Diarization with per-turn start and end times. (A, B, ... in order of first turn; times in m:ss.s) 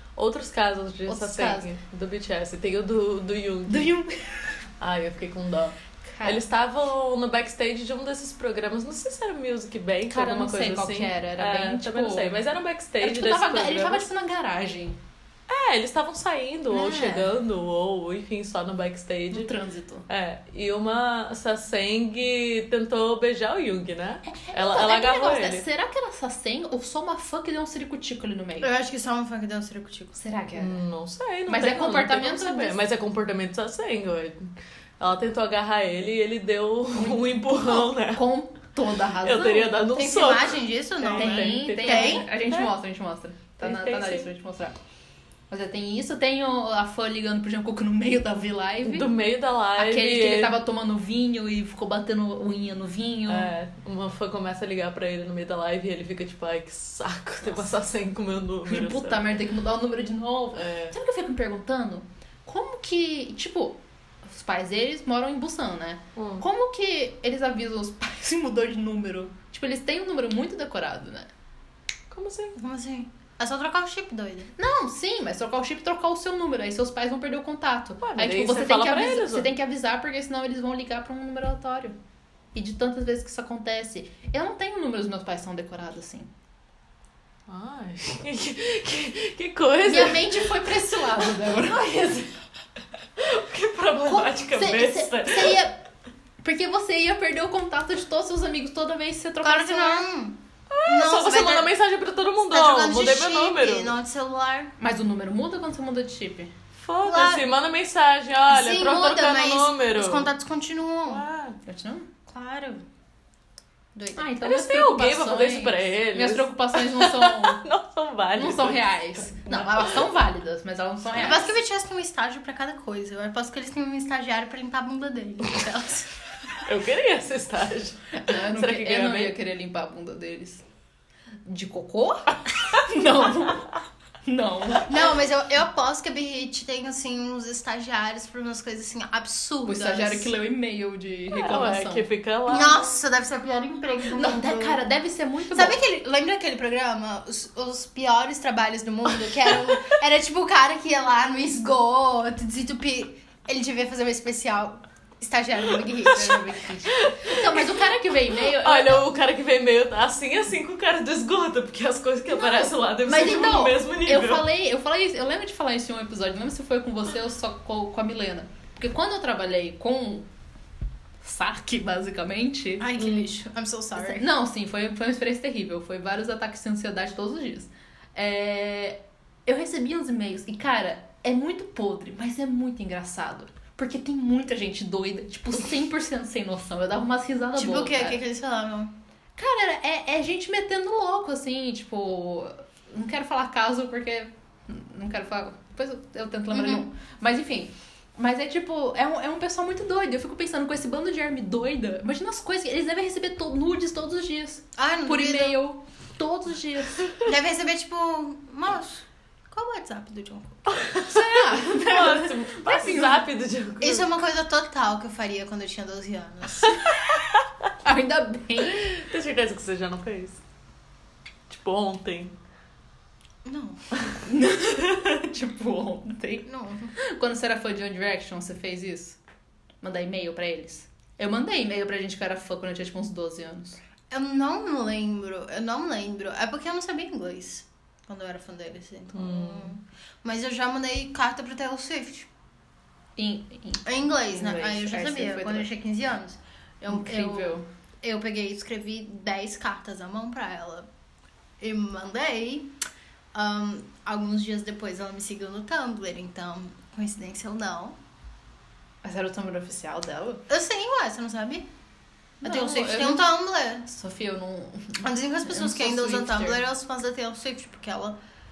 0:00.2-0:03.9 A
0:01.1-0:01.6 B
0:03.7-0:04.5 C
0:04.8-0:14.1 A
0:06.1-0:06.4 C
0:10.1-0:12.4 C
0:13.0-0:15.0 C
0:15.5-0:19.5 A
0:16.7-0:17.3 C
0:19.3-0:20.0 C
0:20.1-0:25.6 A
0:24.2-0:28.7 C
0:28.6-0:30.2 B
0:30.2-0:30.8 C
0:30.6-0:38.2 A
0:31.5-0:32.8 C
0:36.9-0:39.8 C
0:39.2-0:42.7 A
0:39.9-0:42.2 B
0:41.1-0:44.8 C
0:43.6-0:44.3 A
0:45.5-0:49.1 C
0:48.8-0:50.6 A
0:49.8-0:53.5 C
0:53.3-0:59.3 A
0:58.6-1:11.3 C
1:00.5-1:00.9 A
1:06.2-1:06.4 A
1:12.1-1:12.6 A
1:12.6-1:14.5 B
1:14.6-1:22.0 C
1:18.0-1:19.5 A
1:22.5-1:26.3 C
1:27.5-1:30.7 A
1:29.8-1:32.0 C
1:31.4-1:32.3 A
1:33.2-1:35.6 A
1:34.0-1:35.8 C
1:36.4-1:40.1 C
1:39.4-1:41.7 B
1:40.7-1:43.9 A
1:42.5-1:44.7 B
1:44.8-1:46.5 C
1:46.8-1:50.3 A
1:47.0-1:47.4 B
1:48.5-1:51.2 B
1:51.1-1:51.6 A
1:51.6-1:52.1 C
1:52.3-1:52.8 B
1:53.9-1:54.2 B
1:54.2-1:57.6 C
1:54.4-2:00.0 A
1:58.4-2:01.6 C
2:01.2-2:06.2 B
2:06.6-2:09.3 A
2:08.1-2:10.6 C
2:11.4-2:13.7 C
2:14.2-2:15.0 C
2:14.8-2:20.3 B
2:19.6-2:22.0 C
2:21.3-2:23.0 A
2:22.5-2:24.8 B
2:24.1-2:25.8 C
2:25.5-2:36.6 B
2:29.3-2:29.9 A
2:36.0-2:39.0 C
2:36.9-2:37.6 A
2:38.3-2:44.4 A
2:42.3-2:50.3 C
2:51.2-2:53.1 C
2:52.8-2:54.2 B
2:54.0-3:08.2 C
3:07.6-3:08.9 B
3:09.4-3:27.1 C
3:16.5-3:16.8 B
3:24.8-3:25.6 B
3:27.2-3:31.0 B
3:30.7-3:34.1 A
3:31.1-3:33.2 C
3:33.8-3:36.8 B
3:36.6-3:37.4 A
3:37.8-3:39.0 C
3:38.8-3:40.4 A
3:41.5-3:42.4 A
3:43.4-3:43.8 B
3:44.2-3:49.2 C
3:46.4-3:46.9 B
3:49.8-3:53.8 C
3:54.1-4:02.3 B
3:59.1-3:59.7 A
4:03.2-4:05.7 C
4:03.8-4:10.9 B
4:06.9-4:07.6 C
4:11.6-4:12.7 B
4:13.3-4:18.0 B
4:19.0-4:20.4 C
4:20.5-4:21.6 B
4:22.4-4:23.3 C
4:22.4-4:23.8 B
4:23.8-4:26.6 C
4:25.0-4:28.2 B